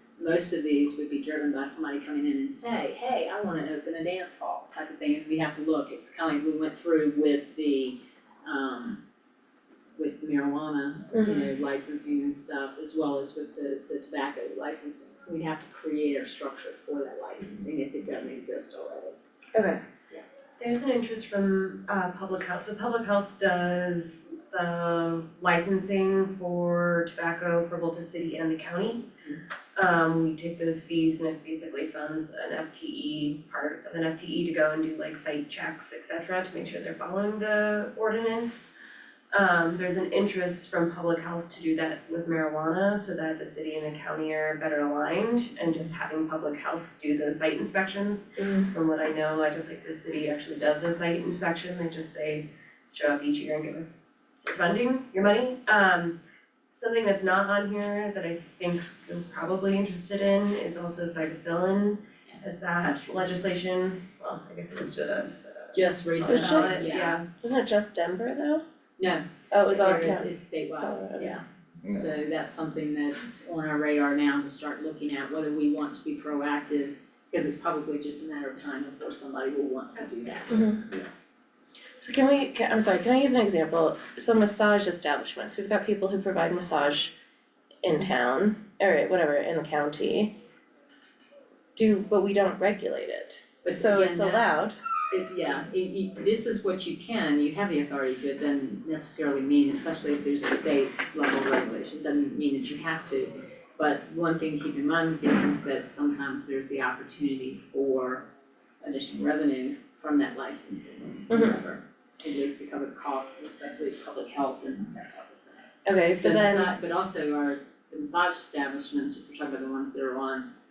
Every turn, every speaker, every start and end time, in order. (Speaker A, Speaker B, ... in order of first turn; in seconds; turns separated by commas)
Speaker A: 0.2-9.0, Speaker A: 10.0-19.2, Speaker B: 11.1-11.5, Speaker B: 19.5-19.8, Speaker C: 20.6-29.1, Speaker C: 29.8-38.7, Speaker C: 39.3-56.2, Speaker B: 48.4-48.7, Speaker C: 56.7-67.3, Speaker A: 65.7-67.2, Speaker B: 66.2-68.6, Speaker A: 69.0-80.7, Speaker B: 69.5-70.3, Speaker B: 70.8-71.4, Speaker B: 80.5-80.8, Speaker B: 82.0-87.1, Speaker B: 87.8-90.3, Speaker B: 91.8-94.8, Speaker A: 93.6-94.5, Speaker A: 95.1-108.3, Speaker A: 108.8-115.7, Speaker B: 111.3-111.6, Speaker B: 115.8-116.7, Speaker A: 116.2-120.5